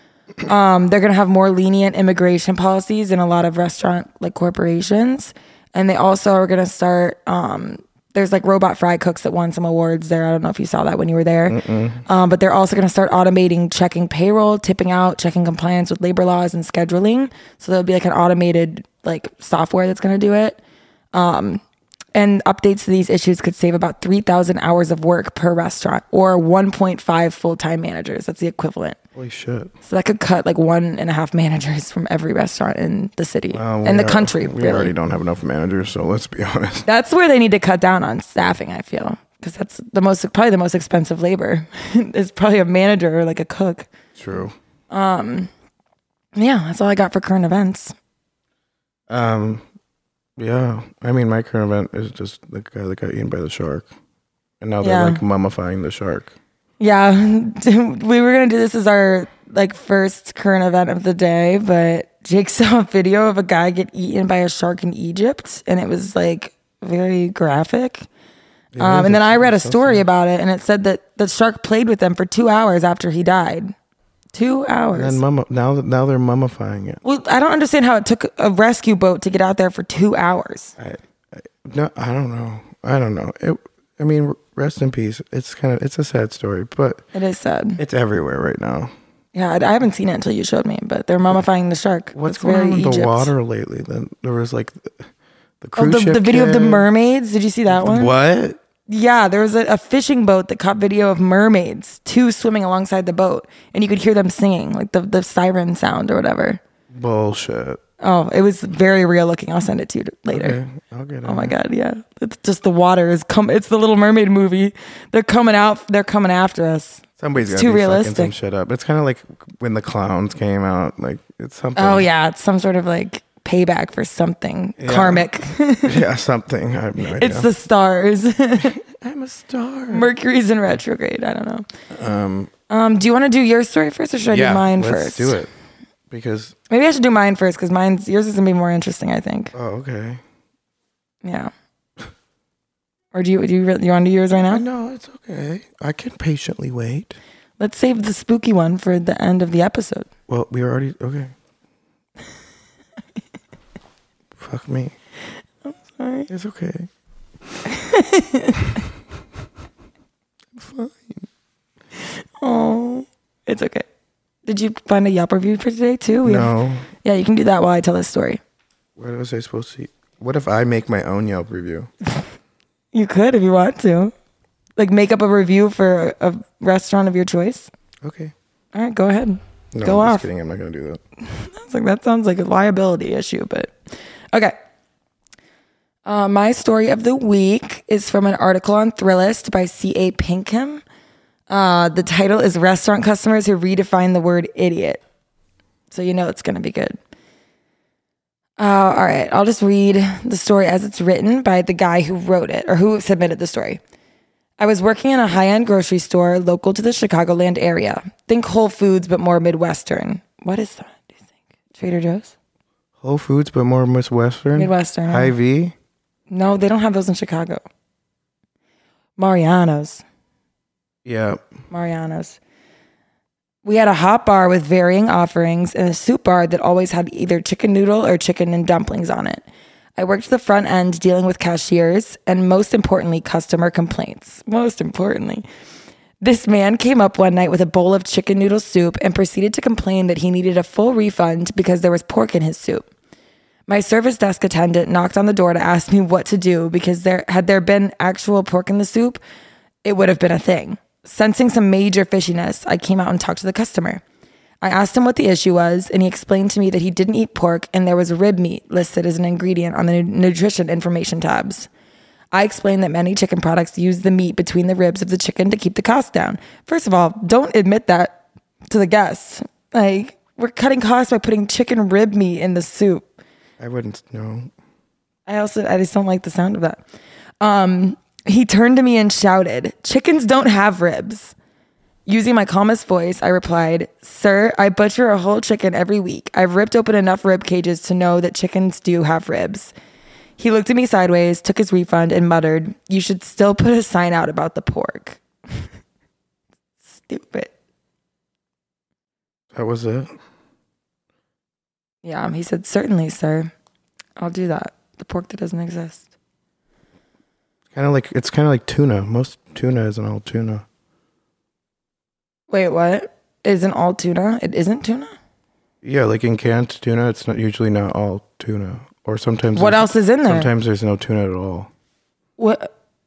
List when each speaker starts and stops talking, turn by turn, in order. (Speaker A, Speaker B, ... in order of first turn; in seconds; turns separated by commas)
Speaker A: 0.5-20.6, Speaker B: 11.5-12.0, Speaker A: 21.1-21.6, Speaker A: 22.1-29.0, Speaker B: 29.2-29.7, Speaker A: 29.9-34.9, Speaker B: 33.5-36.9, Speaker A: 36.9-43.9, Speaker B: 44.2-44.5, Speaker A: 44.9-45.5, Speaker A: 46.4-48.0, Speaker B: 49.1-49.6, Speaker B: 50.4-53.9, Speaker B: 54.6-56.3, Speaker A: 54.8-55.2, Speaker A: 56.8-68.1, Speaker B: 68.7-70.1, Speaker A: 68.8-73.7, Speaker A: 74.3-75.2, Speaker B: 74.9-77.0, Speaker A: 77.0-80.8, Speaker B: 80.8-87.0, Speaker A: 87.1-87.8, Speaker B: 87.8-88.9, Speaker A: 89.3-93.3, Speaker B: 92.1-95.1, Speaker B: 95.6-96.9, Speaker A: 95.8-98.1, Speaker B: 97.7-98.6, Speaker A: 98.9-106.6, Speaker B: 106.9-107.8, Speaker A: 108.0-110.6, Speaker B: 110.3-111.5, Speaker A: 111.2-118.3, Speaker B: 117.2-122.1, Speaker A: 121.8-126.0, Speaker B: 124.8-125.3, Speaker B: 125.8-127.5, Speaker A: 127.1-128.8, Speaker B: 128.6-130.1, Speaker A: 129.9-131.7, Speaker B: 131.9-132.5, Speaker A: 132.7-135.4, Speaker B: 134.3-135.5, Speaker B: 136.1-136.6, Speaker A: 136.7-139.5, Speaker B: 139.5-140.2, Speaker A: 141.2-141.5, Speaker A: 143.1-144.6, Speaker B: 144.5-147.2, Speaker A: 147.6-150.1, Speaker B: 150.3-151.3, Speaker B: 154.4-154.9, Speaker A: 155.7-156.3, Speaker B: 156.3-156.9, Speaker A: 157.7-158.8, Speaker B: 160.6-161.3, Speaker A: 162.4-163.9, Speaker A: 164.5-168.4, Speaker B: 166.2-166.9, Speaker B: 169.0-171.9, Speaker A: 172.9-174.1, Speaker A: 174.8-177.7, Speaker B: 178.0-178.3, Speaker A: 178.7-180.2, Speaker B: 179.7-181.0, Speaker A: 181.2-183.8, Speaker A: 186.1-190.8, Speaker A: 191.5-195.0, Speaker A: 195.9-197.0, Speaker A: 198.6-203.8, Speaker A: 204.6-211.2, Speaker A: 211.7-212.3, Speaker B: 213.0-215.8, Speaker A: 214.6-215.3, Speaker A: 216.3-217.6, Speaker A: 219.2-220.0, Speaker B: 221.1-221.4, Speaker A: 221.7-222.4, Speaker A: 223.7-229.4, Speaker A: 230.0-235.4, Speaker A: 236.2-242.9, Speaker A: 243.7-249.2, Speaker A: 249.8-254.0, Speaker A: 254.6-261.7, Speaker A: 262.3-273.1, Speaker B: 273.6-274.5, Speaker A: 275.3-276.8, Speaker A: 277.4-281.4, Speaker A: 282.1-289.7, Speaker A: 290.4-295.6, Speaker A: 296.9-297.5, Speaker B: 299.5-300.1, Speaker A: 302.0-303.5, Speaker A: 304.2-306.1, Speaker B: 307.7-310.6, Speaker A: 312.5-315.1, Speaker B: 315.8-321.7, Speaker A: 319.6-320.5, Speaker A: 322.4-322.7